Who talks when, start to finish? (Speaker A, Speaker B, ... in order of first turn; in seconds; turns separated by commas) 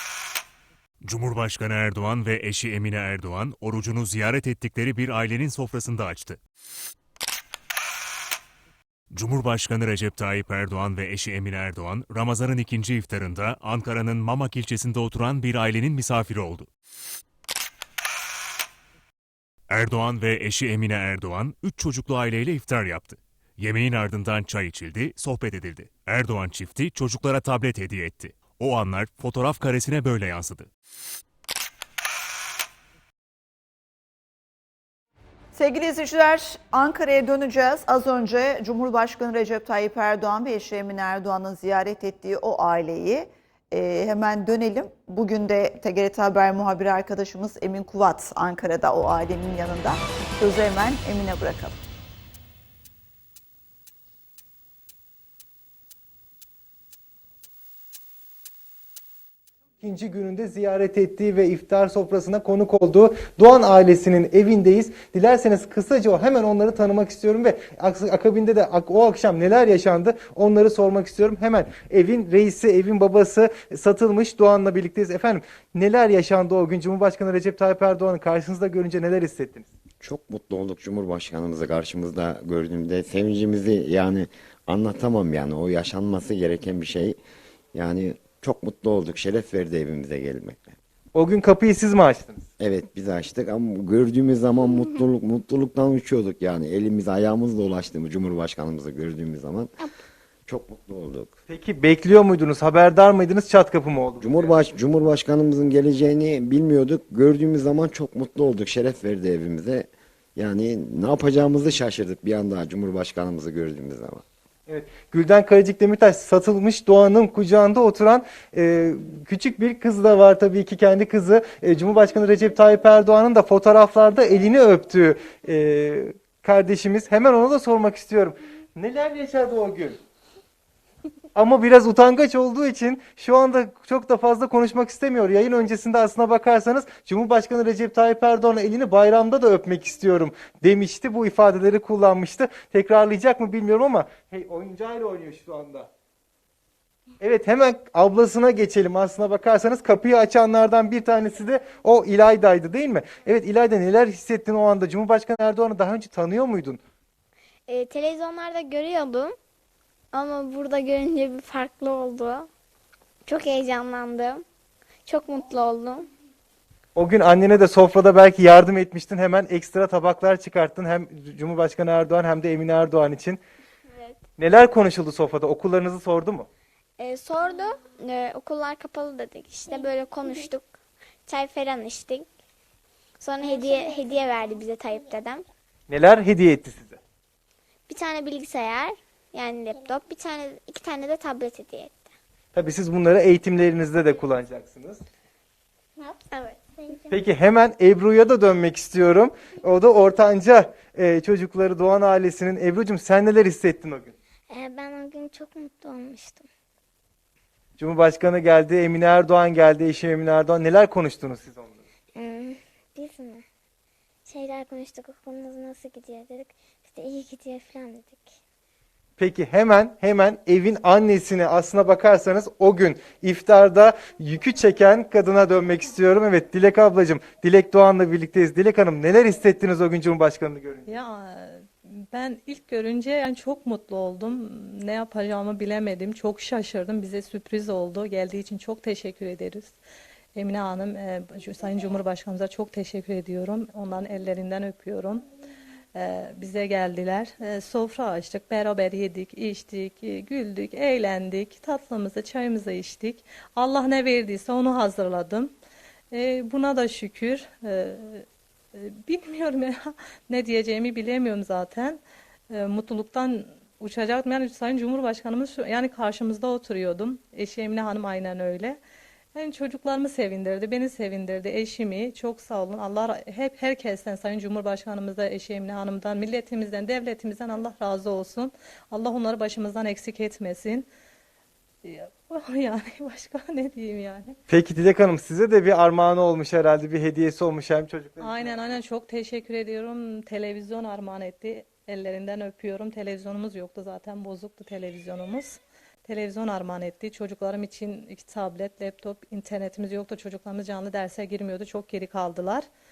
Speaker A: 1.0-6.4, Speaker A: 9.1-16.7, Speaker A: 19.7-30.7, Speaker B: 35.5-51.8, Speaker C: 59.8-79.7, Speaker D: 80.0-87.2, Speaker D: 87.7-90.7, Speaker C: 91.1-92.5, Speaker D: 92.6-99.7, Speaker D: 100.5-101.3, Speaker C: 101.5-104.5, Speaker D: 104.2-114.2, Speaker C: 114.7-130.0, Speaker C: 131.3-145.9, Speaker C: 147.2-156.8, Speaker E: 157.7-159.4, Speaker E: 160.1-162.5, Speaker E: 163.2-164.4, Speaker E: 165.1-166.1, Speaker C: 166.9-173.4, Speaker E: 173.9-174.2, Speaker C: 174.4-176.5, Speaker E: 177.0-180.7, Speaker E: 181.2-182.3, Speaker E: 183.2-185.4, Speaker C: 185.9-187.0, Speaker E: 187.9-192.0, Speaker C: 192.5-195.0, Speaker C: 197.1-204.1, Speaker E: 204.5-206.4, Speaker C: 207.8-211.8, Speaker E: 212.2-213.4, Speaker E: 214.2-218.1, Speaker C: 219.2-230.9, Speaker F: 230.9-239.7, Speaker F: 240.3-245.2, Speaker F: 245.9-255.5, Speaker F: 256.1-262.0, Speaker F: 262.5-268.8, Speaker F: 269.3-280.9, Speaker F: 281.8-284.4, Speaker C: 284.5-288.8, Speaker F: 288.2-302.7